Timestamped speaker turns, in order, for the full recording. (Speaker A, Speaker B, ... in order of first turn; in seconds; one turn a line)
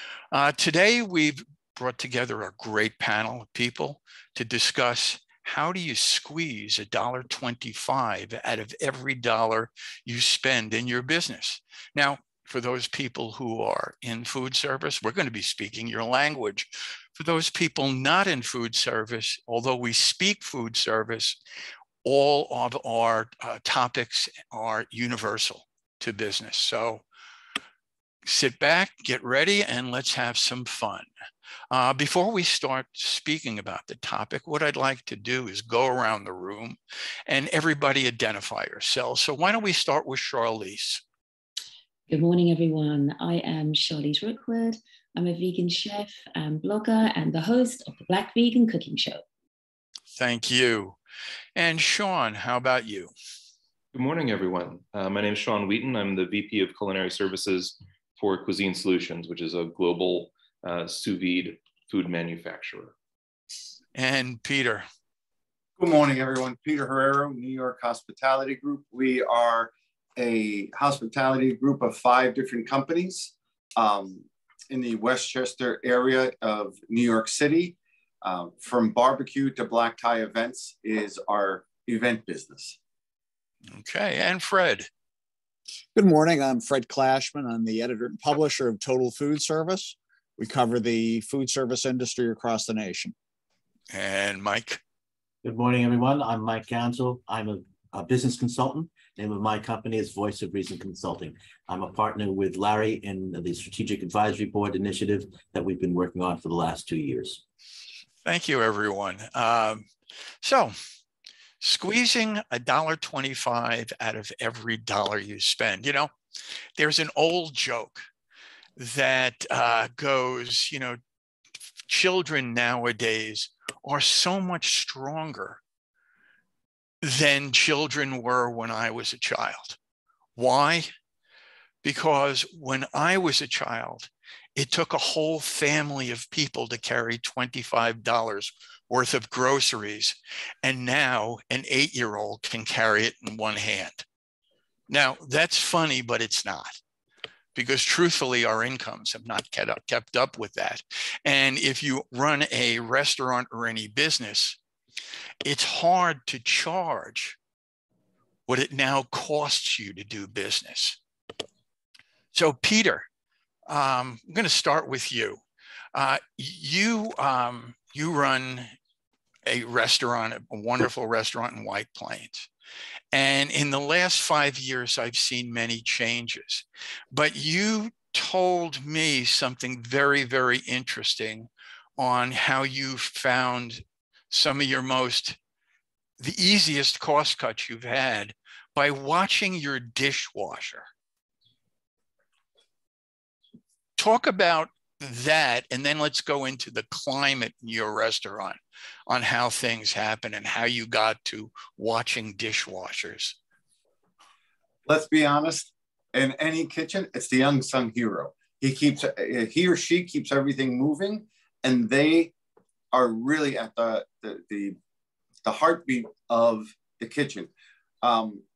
Speaker A: 0.3-21.4
Speaker A: 22.0-27.0
Speaker A: 28.2-31.1
Speaker A: 31.7-41.0
Speaker B: 42.1-49.2
Speaker A: 50.1-51.0
Speaker A: 51.5-53.1
Speaker C: 53.9-62.9
Speaker A: 63.9-64.8
Speaker D: 65.8-82.8
Speaker A: 83.7-84.9
Speaker E: 85.9-93.1
Speaker A: 93.9-94.8
Speaker F: 95.4-107.4
Speaker A: 108.2-109.8
Speaker A: 110.4-110.7
Speaker A: 111.6-116.1
Speaker A: 116.8-118.0
Speaker A: 118.8-121.0
Speaker A: 121.9-125.6
Speaker A: 127.0-129.8
Speaker A: 130.3-130.9
Speaker A: 131.8-144.0
Speaker A: 144.9-146.7
Speaker A: 147.5-154.6
Speaker A: 155.4-157.4
Speaker A: 158.5-161.0
Speaker A: 162.3-163.1
Speaker A: 163.7-165.4
Speaker A: 165.9-168.7
Speaker A: 169.4-172.5
Speaker A: 173.1-185.4
Speaker A: 186.2-190.9
Speaker A: 194.0-203.3
Speaker D: 204.8-212.3
Speaker D: 212.9-214.8
Speaker D: 215.4-217.5
Speaker D: 218.0-218.4